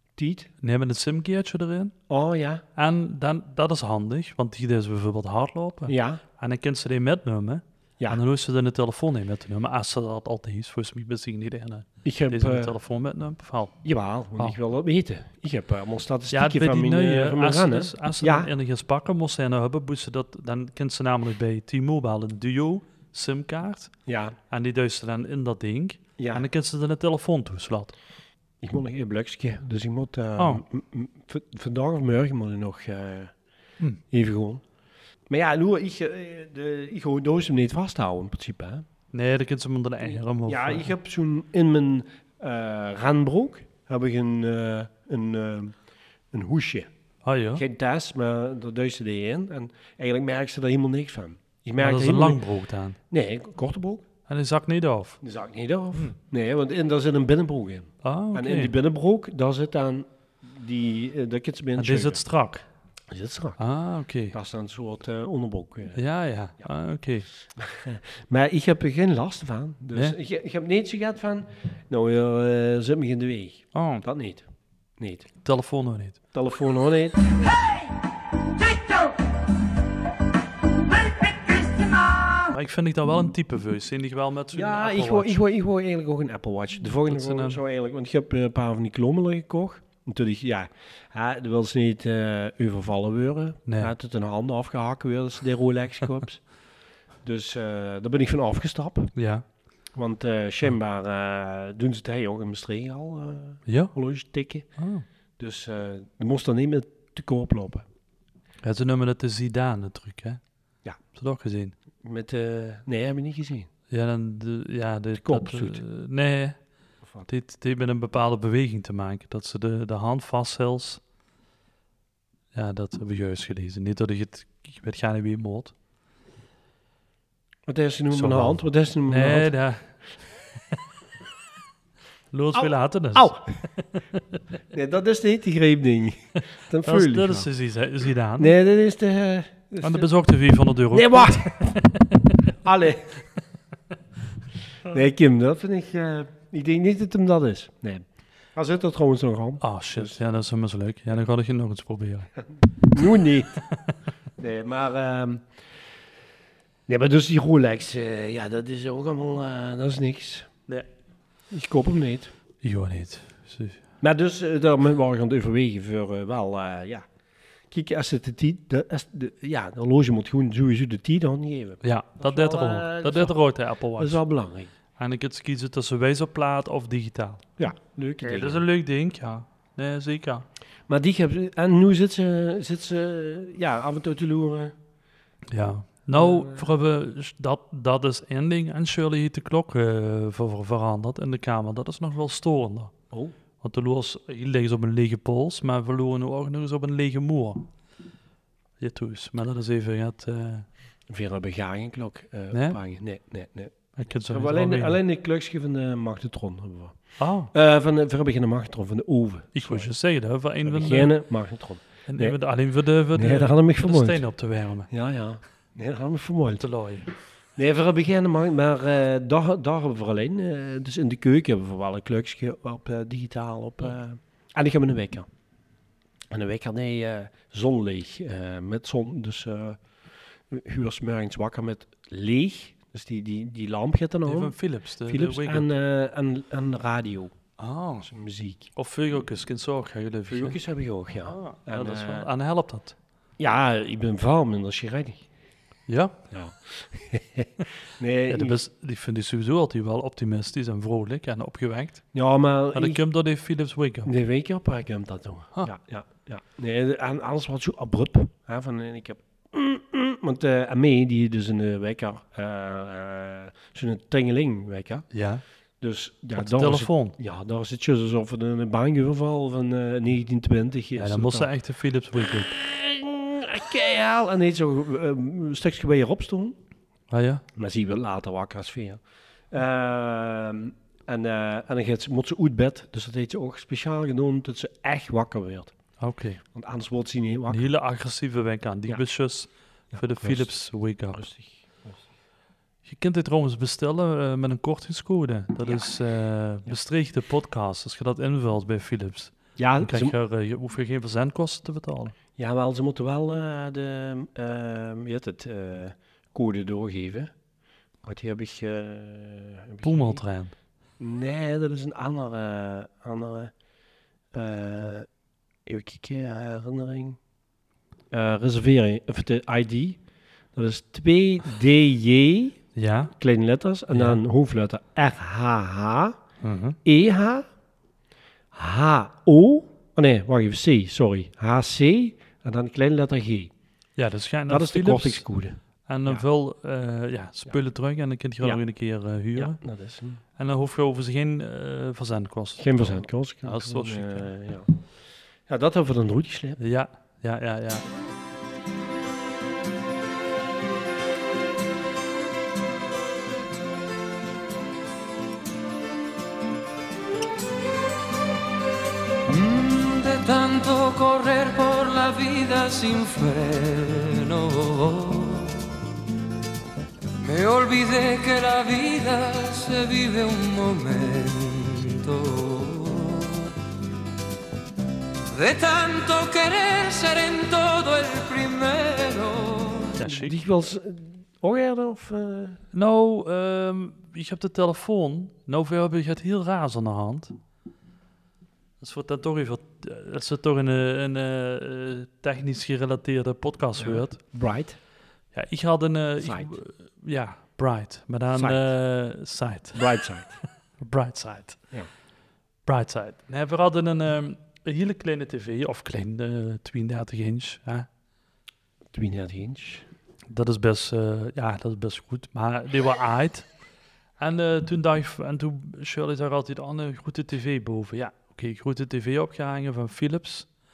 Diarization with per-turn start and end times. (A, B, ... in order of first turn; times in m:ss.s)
0:00.2-0:00.5 A
0:00.6-0:01.9 B
0:02.1-0:02.6 A
0:02.8-0:13.8 B
0:05.9-0:06.2 A
0:12.0-0:12.8 A
0:13.8-0:18.5 A
0:16.3-0:23.9 B
0:24.1-0:24.4 A
0:24.5-0:27.9 B
0:26.2-0:26.5 A
0:28.6-0:33.3 A
0:30.4-0:30.6 B
0:34.1-0:34.6 A
0:35.3-0:38.9 A
0:39.1-0:40.9 B
0:40.4-0:45.8 A
0:46.3-0:46.9 A
0:47.2-0:47.6 B
0:47.6-0:52.4 A
0:51.8-0:53.0 B
0:53.1-0:54.0 A
0:54.3-0:55.2 B
0:55.2-1:02.2 A
0:58.0-0:58.7 B
1:01.8-1:02.6 B
1:03.1-1:03.6 A
1:03.6-1:04.4 B
1:04.3-1:06.0 A
1:06.0-1:07.3 B
1:07.6-1:14.5 A
1:13.7-1:14.0 B
1:15.0-1:15.3 A
1:15.4-1:16.2 B
1:16.3-1:17.5 A
1:22.5-1:25.4 B
1:24.5-1:36.5 A
1:27.1-1:27.6 B
1:33.7-1:33.9 B
1:37.2-1:39.1 A
1:39.2-1:39.4 B
1:39.9-1:44.7 A
1:43.7-1:43.9 B
1:44.8-1:45.0 B
1:45.4-1:47.9 A
1:48.6-1:50.4 B
1:51.1-1:51.8 B
1:52.0-1:53.7 A
1:53.9-1:56.6 B
1:55.2-1:55.8 A
1:57.0-1:57.3 A
1:57.3-2:01.0 B
2:02.5-2:05.7 B
2:07.7-2:09.6 A
2:08.1-2:10.1 B
2:12.3-2:14.4 B
2:12.5-2:13.4 A
2:14.7-2:17.5 A
2:16.8-2:18.5 B
2:18.4-2:20.1 A
2:19.8-2:22.3 B
2:20.9-2:21.5 A
2:22.5-2:23.1 A
2:24.8-2:30.2 A
2:29.6-2:32.3 B
2:32.8-2:33.6 A
2:34.4-2:35.5 A
2:36.9-2:40.5 A
2:41.5-2:42.3 A
2:42.6-2:43.8 B
2:44.0-2:47.0 A
2:47.7-2:53.4 A
2:51.8-2:54.2 B
2:54.0-2:54.7 A
2:55.0-2:57.4 B
2:57.6-2:58.7 A
2:58.2-3:00.5 B
3:00.9-3:04.8 A
3:05.5-3:12.9 B
3:06.1-3:06.7 A
3:13.6-3:17.7 B
3:18.8-3:20.7 B
3:21.1-3:29.9 A
3:22.5-3:22.8 B
3:24.0-3:25.0 B
3:27.2-3:27.5 B
3:29.5-3:31.2 B
3:30.6-3:32.4 A
3:32.1-3:34.9 B
3:33.1-3:34.2 A
3:34.9-3:36.6 A
3:36.6-3:37.1 B
3:37.6-3:45.3 A
3:46.3-3:49.8 A
3:50.5-3:57.3 A
3:54.3-3:55.7 B
3:57.6-3:58.1 B
3:58.1-3:58.7 A
3:58.8-4:00.6 B
4:00.3-4:02.3 A
4:01.2-4:03.0 B
4:03.4-4:05.2 A
4:05.9-4:06.2 B
4:06.3-4:08.6 A
4:08.3-4:12.0 B
4:12.1-4:13.0 A
4:12.7-4:14.1 B
4:14.1-4:25.1 A
4:25.1-4:25.4 B
4:25.8-4:31.5 A
4:26.4-4:27.2 B
4:31.0-4:32.5 B
4:32.5-4:36.6 A
4:37.1-4:37.4 B
4:37.6-4:45.7 A
4:46.0-4:46.4 B
4:46.5-4:47.7 A
4:47.5-4:51.2 B
4:49.9-4:50.5 A
4:51.1-4:52.0 A
4:52.8-5:02.2 B
4:55.6-4:55.9 A
4:59.6-5:00.2 A
5:02.4-5:07.3 A
5:08.0-5:10.2 A
5:09.8-5:10.5 B
5:11.0-5:13.5 A
5:14.3-5:15.1 A
5:15.7-5:17.2 A
5:18.1-5:20.0 A
5:20.5-5:22.6 A
5:22.8-5:23.1 B
5:23.2-5:26.2 A
5:23.9-5:24.2 B
5:26.4-5:26.8 B
5:26.8-5:27.4 A
5:28.5-5:33.5 A
5:34.0-5:35.2 B
5:34.5-5:36.2 A
5:35.9-5:39.6 B
5:39.4-5:40.2 A
5:40.4-5:44.3 B
5:42.6-5:44.7 A
5:45.5-5:46.6 A
5:46.6-5:47.9 B
5:59.3-6:05.8 C
6:07.2-6:13.5 C
6:15.3-6:19.9 C
6:20.0-6:20.4 B
6:20.0-6:22.6 A
6:22.7-6:27.3 B
6:28.8-6:34.2 B
6:33.8-6:34.8 A
6:35.3-6:39.9 B
6:36.2-6:36.5 A
6:38.3-6:38.7 A
6:39.7-6:40.4 A
6:40.8-6:41.6 B
6:42.7-6:47.9 B
6:48.9-6:49.9 A
6:50.3-6:53.5 B
6:54.2-7:00.5 B